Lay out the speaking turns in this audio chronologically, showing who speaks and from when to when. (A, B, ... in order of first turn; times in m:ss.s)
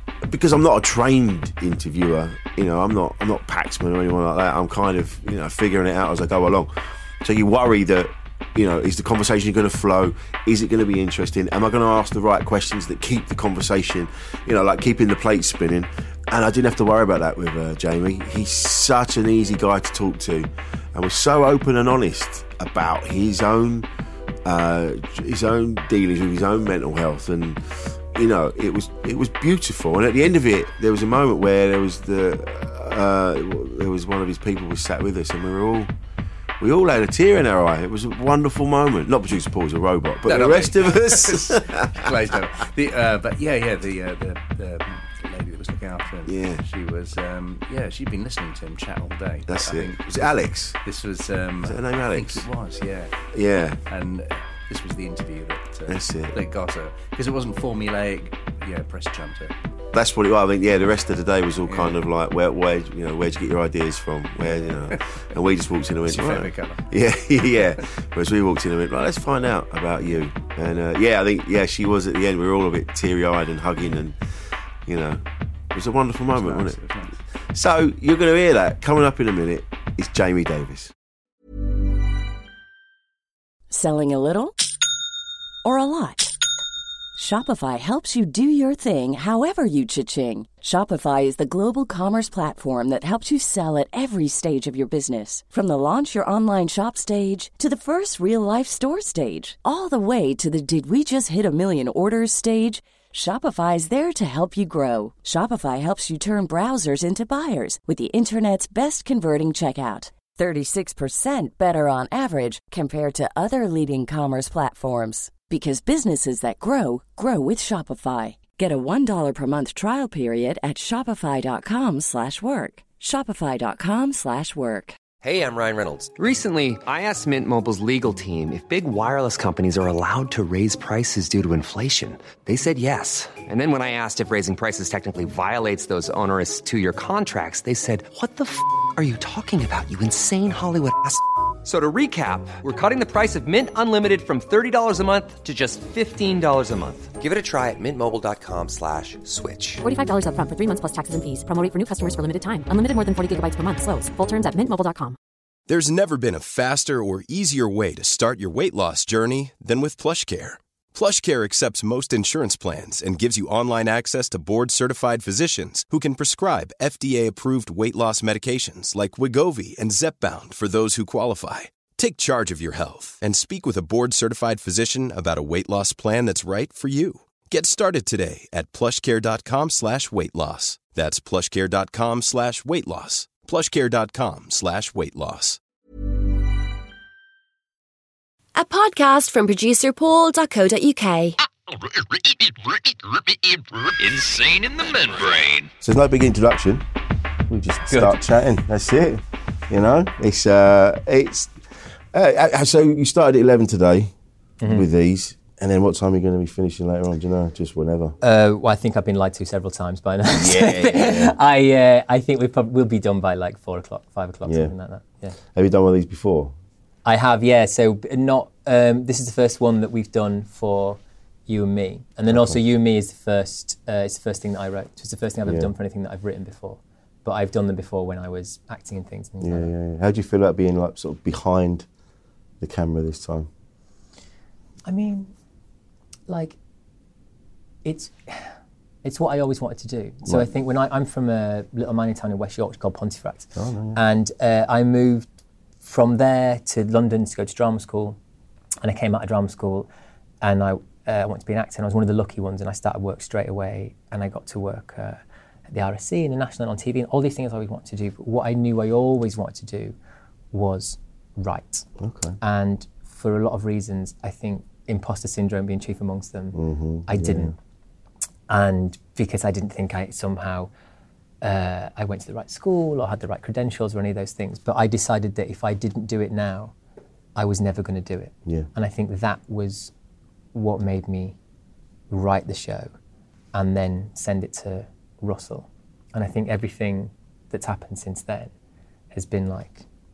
0:00.2-0:23.9 A
0:24.4-0:27.6 A
0:28.1-0:35.9 A
0:36.6-0:42.4 A
0:40.2-0:53.1 B
0:46.2-0:46.6 A
0:49.4-0:50.8 A
0:51.6-0:52.5 A
0:53.3-0:53.8 A
0:53.9-0:59.5 B
0:55.9-0:56.4 A
0:59.9-1:14.2 A
1:01.6-1:02.0 B
1:04.4-1:05.0 B
1:06.0-1:06.8 B
1:14.8-1:16.8 A
1:16.3-1:17.2 B
1:17.5-1:20.9 A
1:23.7-1:24.6 C
1:25.6-1:26.3 C
1:27.2-2:05.0 C
2:05.2-2:29.8 D
2:29.8-2:35.2 E
2:35.7-3:05.6 F
3:08.6-3:11.4 G
3:15.8-3:16.8 A
3:17.5-3:21.5 A
3:17.9-3:18.2 H
3:22.1-3:24.1 A
3:24.6-3:28.2 A
3:28.2-3:35.4 H
3:30.3-3:31.4 A
3:34.4-3:34.7 A
3:35.5-3:36.5 A
3:37.0-3:49.7 H
3:42.3-3:42.6 A
3:49.4-3:51.9 A
3:52.6-3:53.5 A
3:54.8-3:55.3 H
3:56.3-3:56.6 H
3:57.8-4:05.3 H
4:03.6-4:04.0 A
4:05.8-4:08.2 H
4:08.8-4:09.9 H
4:10.4-4:19.9 H
4:20.5-4:21.9 H
4:22.0-4:22.4 A
4:22.4-4:27.5 H
4:26.5-4:27.5 A
4:28.5-4:30.7 H
4:31.4-4:36.7 H
4:37.4-4:39.9 H
4:40.5-4:41.4 H
4:42.1-4:42.9 H
4:43.5-4:48.5 H
4:49.1-4:49.8 H